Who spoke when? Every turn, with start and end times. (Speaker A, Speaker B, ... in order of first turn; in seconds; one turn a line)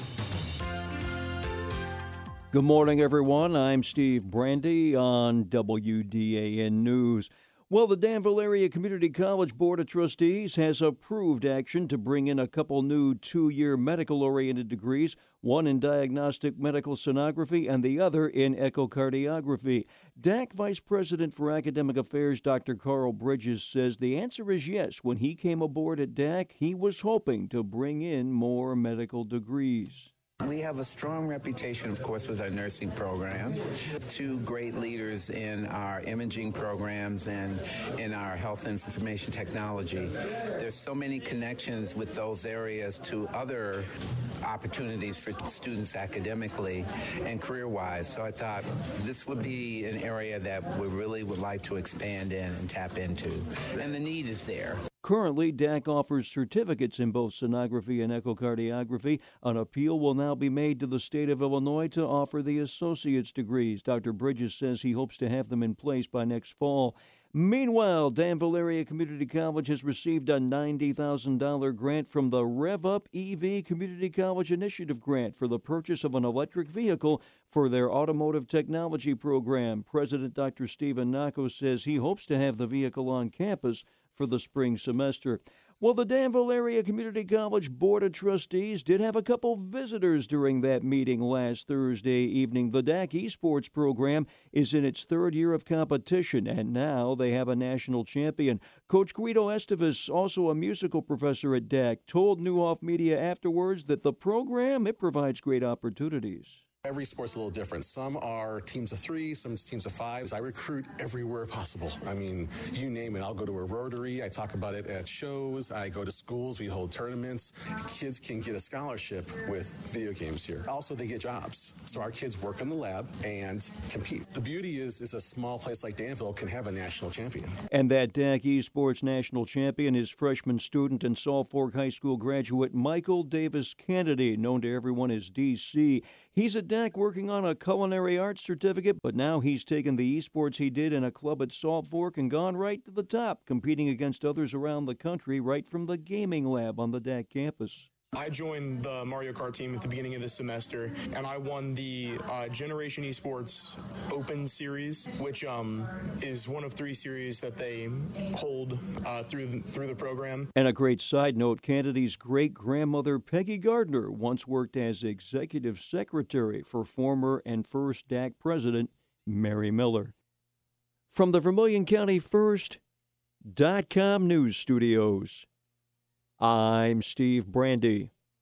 Speaker A: 2.5-30.1
Speaker B: 30.4-43.9
Speaker B: 44.4-54.8
Speaker A: 55.0-106.6
Speaker C: 106.9-127.5
Speaker A: 127.7-147.9
Speaker D: 148.1-160.5
Speaker A: 160.6-170.1
Speaker A: 171.1-172.8
Speaker A: 173.5-175.5
Speaker A: 176.4-178.1